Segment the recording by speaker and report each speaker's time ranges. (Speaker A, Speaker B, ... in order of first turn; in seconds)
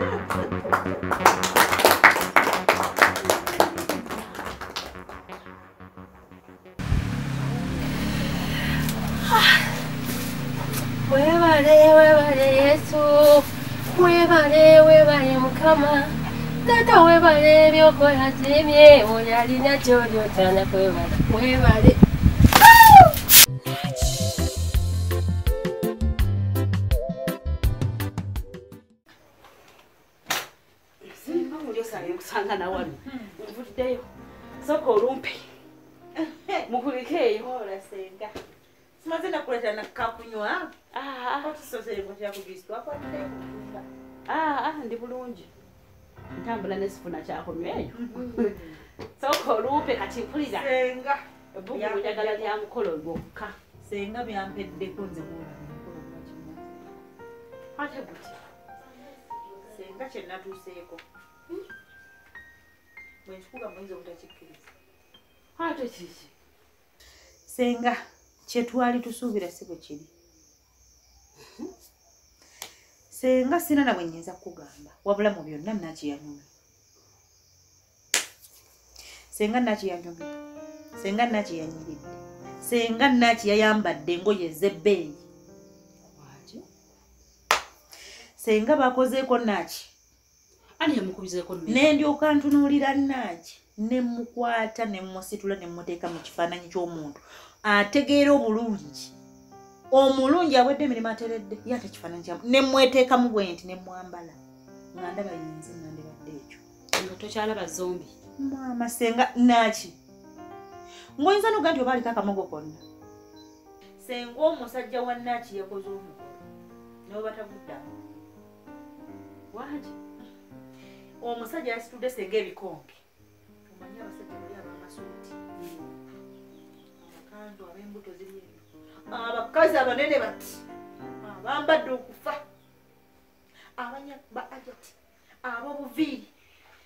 Speaker A: 11.1-22.0
Speaker B: 31.1-34.0, 34.6-35.5, 36.7-37.5, 40.9-41.6, 44.3-45.5, 46.4-50.8, 51.5-53.5, 57.8-58.4, 65.6-66.3, 86.2-86.6, 90.8-92.0, 107.0-108.1, 119.5-120.0, 125.6-125.9
Speaker C: 31.2-32.2, 36.2-36.6, 37.4-38.4, 39.0-40.7, 41.4-43.9, 48.0-48.8, 50.5-51.2, 51.7-52.5, 53.8-56.9, 59.6-61.0, 63.2-64.7, 67.5-68.0, 68.5-70.1, 73.1-76.5, 79.3-80.3, 81.0-85.2, 88.4-89.9, 91.7-99.1, 99.9-104.4, 104.9-106.6, 108.4-110.0, 111.2-112.8, 114.0-116.4, 117.1-118.0, 121.2-123.0, 123.7-125.3, 127.0-130.6, 131.2-132.4, 133.8-136.3